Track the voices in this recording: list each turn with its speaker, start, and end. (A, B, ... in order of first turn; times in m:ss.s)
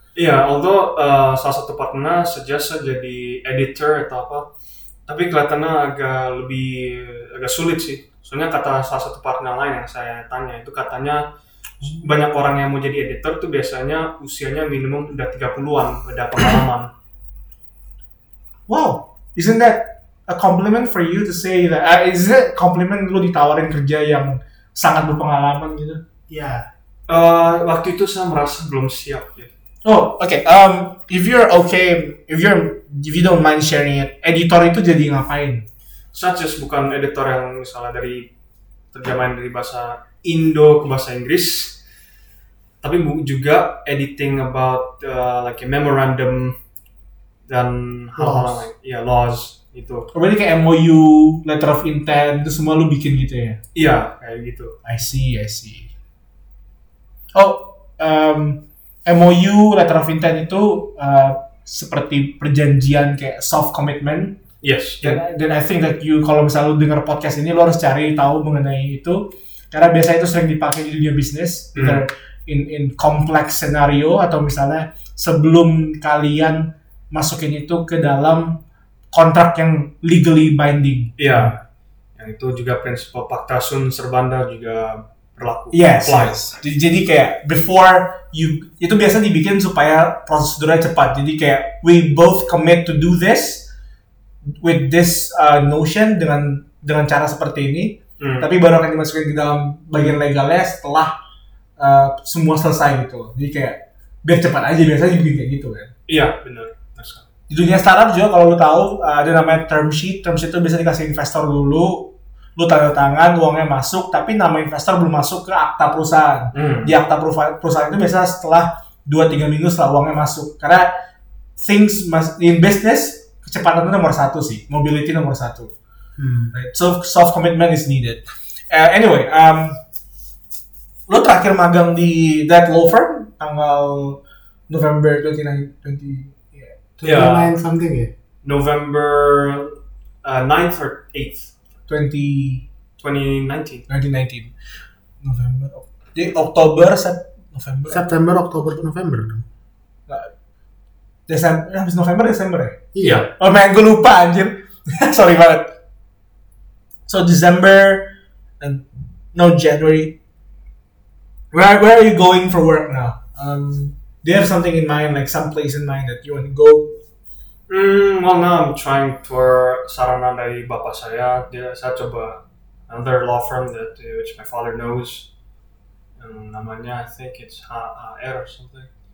0:00.1-0:04.5 A
0:05.1-0:11.2 A
0:11.8-0:16.9 A
0:18.7-0:26.0 B
0:26.3-0:26.7 C
0:27.1-0:29.5 A
0:29.8-0:35.6 B
0:36.1-0:38.3 A
0:38.9-0:41.8 A
0:42.8-0:46.6 A
0:47.5-0:50.1 A
0:48.2-0:48.7 C
0:50.1-0:53.6 B
0:53.7-0:54.8 A
0:54.8-0:55.9 B
0:57.3-1:04.4 B
1:04.6-1:05.2 A
1:05.0-1:18.6 B
1:11.7-1:12.0 A
1:19.1-1:21.6 B
1:21.2-1:21.6 A
1:22.2-1:26.4 A
1:25.7-1:33.7 B
1:34.6-1:41.1 B
1:38.2-1:38.5 A
1:41.8-1:45.9 B
1:46.1-1:47.2 A
1:47.5-2:00.9 B
1:56.5-1:57.0 A
2:01.6-2:05.7 B
2:06.2-2:06.5 C
2:06.5-2:09.8 B
2:11.1-2:16.7 B
2:17.0-2:18.1 C
2:17.0-2:17.5 A
2:18.4-2:21.5 A
2:21.9-2:22.6 B
2:23.0-2:23.8 A
2:23.9-2:24.5 B
2:25.2-2:28.0 B
2:27.9-2:29.4 C
2:31.3-2:35.7 B
2:32.9-2:33.3 C
2:33.0-2:33.2 A
2:37.1-2:40.2 B
2:41.5-2:47.0 B
2:47.7-2:55.3 A
2:56.2-2:58.9 A